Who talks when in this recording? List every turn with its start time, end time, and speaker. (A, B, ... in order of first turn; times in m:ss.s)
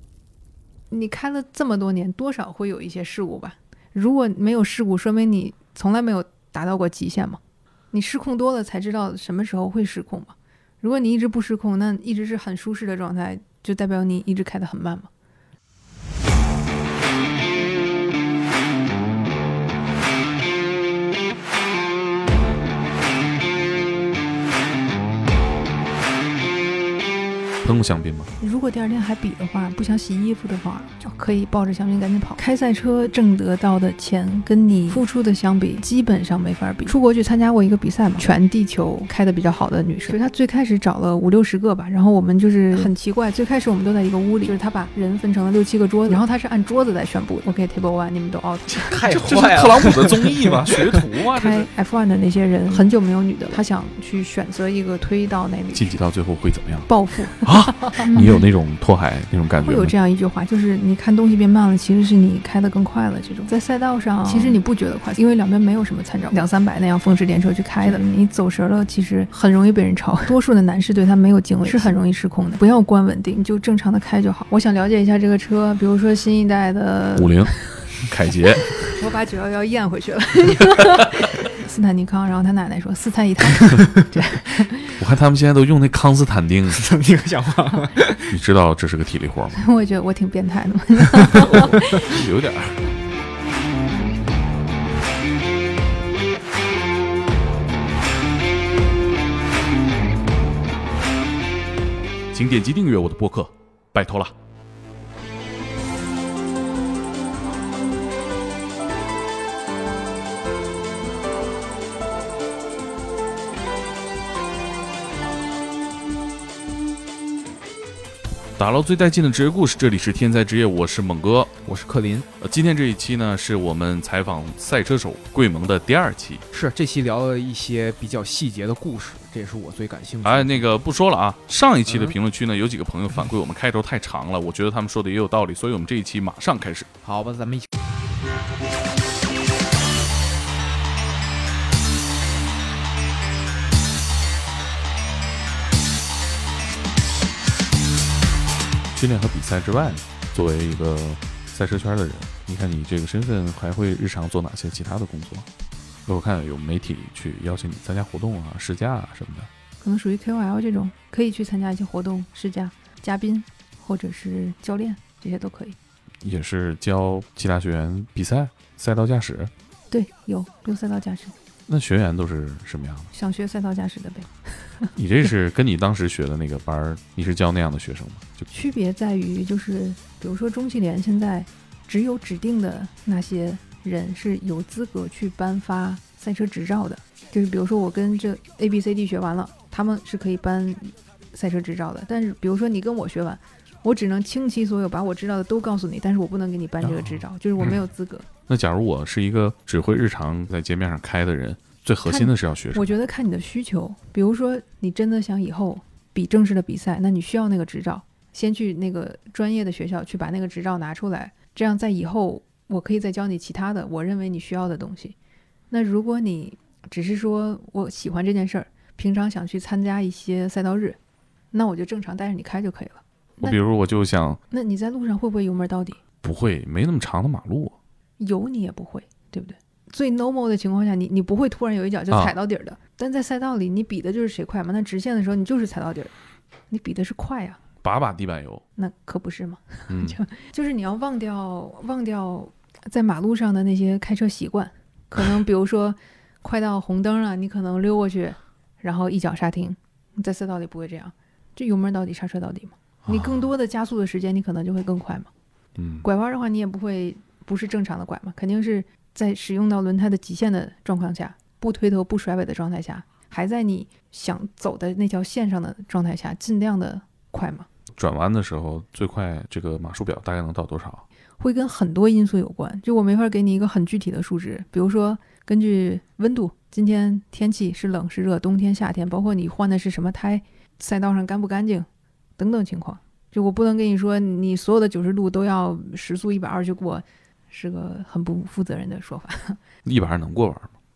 0:00.9-0:07.4 A
0:07.9-0:15.1 A
0:27.6-0:28.3 B
0:28.4-0:49.0 A
0:48.7-0:51.7 B
0:48.9-0:51.0 C
0:51.3-0:55.9 A
0:55.7-0:59.9 B
0:56.9-0:58.4 A
0:59.6-1:17.6 A
1:17.2-1:18.8 B
1:18.9-1:25.0 A
1:25.0-1:26.8 B
1:26.7-1:28.4 C
1:28.3-1:29.6 B
1:29.6-1:32.1 A
1:31.5-1:32.9 B
1:42.3-1:44.3 B
1:58.6-2:01.5 B
2:01.6-2:02.3 C
2:02.4-2:06.4 B
2:06.5-2:10.7 C
2:10.2-2:16.9 B
2:11.9-2:12.2 C
2:17.0-2:17.7 C
2:29.0-2:35.5 B
2:36.1-2:39.5 B
2:39.8-2:45.8 A
2:46.2-2:49.5 B
2:49.9-2:51.4 A
2:51.7-2:53.1 B
2:53.1-2:54.9 A
2:55.0-2:58.5 B
2:58.5-3:18.3 A
3:16.8-3:17.2 B
3:18.5-3:22.9 B
3:22.0-3:35.2 A
3:35.7-3:41.0 A
3:41.5-3:43.6 A
3:43.4-3:44.4 B
3:44.5-3:46.0 A
3:46.2-3:47.8 B
3:48.2-3:56.1 A
3:56.7-3:57.6 A
3:57.8-3:58.6 B
3:58.8-4:15.3 A
3:59.9-4:00.2 B
4:13.1-4:13.4 B
4:15.8-4:16.1 B
4:16.0-4:27.7 A
4:28.0-4:31.0 B
4:31.4-4:41.9 A
4:42.4-4:49.6 A
4:49.8-4:50.7 B